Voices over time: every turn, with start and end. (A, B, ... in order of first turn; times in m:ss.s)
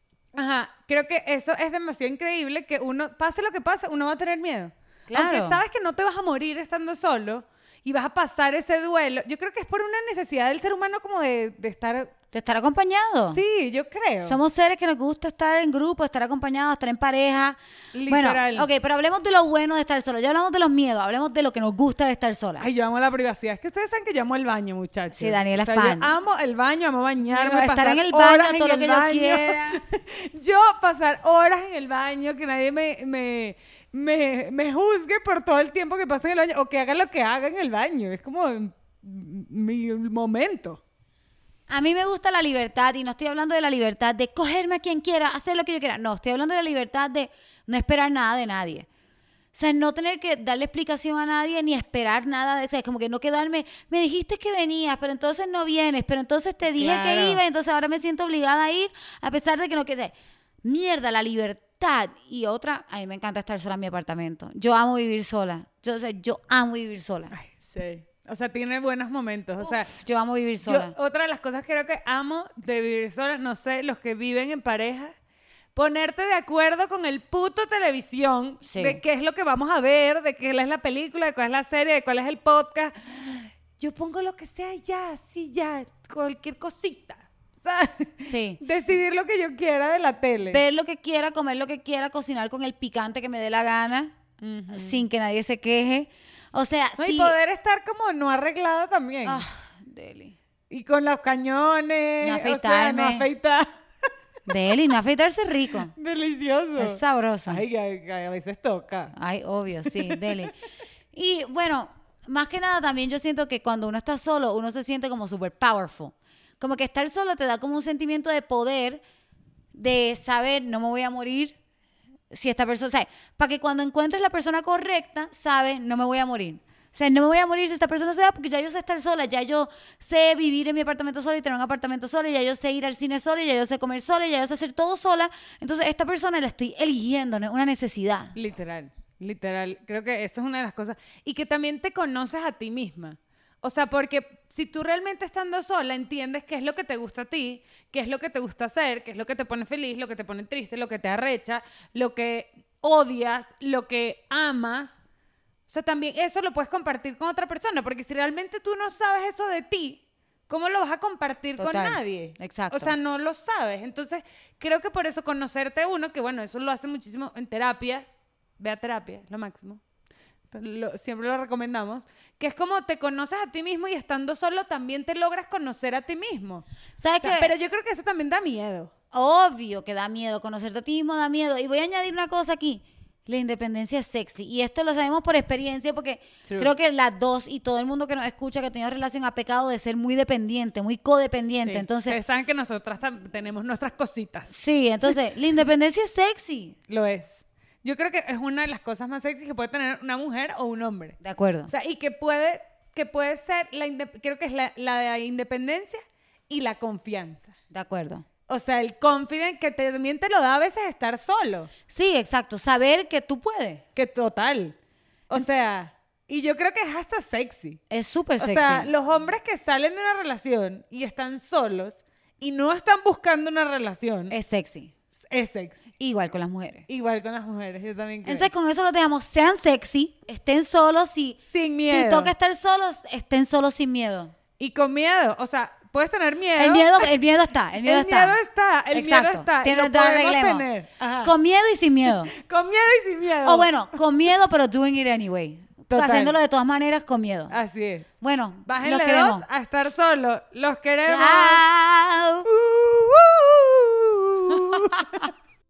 0:00.3-0:12.1 A
0:05.1-0:05.6 B
0:12.3-0:13.4 B
0:13.3-0:14.4 A
0:14.2-0:17.6 B
0:17.9-0:18.7 A
0:18.1-0:22.7 B
0:22.6-0:40.8 A
0:25.1-0:26.1 B
0:27.3-0:29.8 B
0:41.7-0:48.9 B
0:49.5-1:00.1 B
0:56.8-0:57.4 A
1:00.6-1:07.3 B
1:07.3-1:09.9 A
1:09.7-1:11.0 B
1:10.6-1:15.2 A
1:15.7-1:30.6 A
1:18.6-1:19.0 B
1:28.2-1:28.6 B
1:30.5-1:34.1 B
1:34.4-1:35.0 A
1:34.7-1:37.4 B
1:37.0-1:39.4 A
1:39.2-1:40.4 B
1:40.7-1:43.7 A
1:42.2-1:43.3 B
1:44.5-1:45.9 B
1:45.9-1:49.1 A
1:46.8-1:47.6 B
1:49.1-1:50.6 B
1:49.9-1:50.4 A
1:51.1-1:59.0 B
1:59.7-2:01.6 B
2:02.3-2:18.4 B
2:18.4-2:35.0 A
2:35.7-2:48.1 A
2:41.6-2:42.9 B
2:48.6-2:49.8 A
2:50.5-2:56.6 A
2:57.0-2:57.5 B
2:57.2-2:58.9 A
2:59.1-3:12.2 B
3:06.4-3:06.7 A
3:11.6-3:14.5 A
3:14.5-3:16.8 B
3:16.9-3:21.2 A
3:21.2-3:21.7 B
3:21.7-3:27.5 A
3:27.7-3:28.2 B
3:28.5-3:31.7 A
3:31.9-3:33.8 B
3:34.0-3:34.8 A
3:35.3-3:37.8 A
3:37.9-3:38.9 B
3:38.4-3:44.3 A
3:44.3-3:44.9 B
3:45.2-3:45.8 A
3:46.0-3:46.9 B
3:46.9-3:48.5 A
3:48.2-3:54.3 B
3:51.5-3:52.3 A
3:54.6-3:57.1 A
3:56.6-3:58.4 B
3:57.8-4:01.3 A
3:58.9-4:00.7 B
4:01.2-4:02.3 B
4:02.3-4:03.7 A
4:03.4-4:07.6 B
4:05.9-4:06.4 A
4:07.5-4:08.1 A
4:08.2-4:09.5 B
4:08.7-4:11.6 A
4:11.0-4:12.5 B
4:12.5-4:15.3 A
4:14.5-4:15.3 B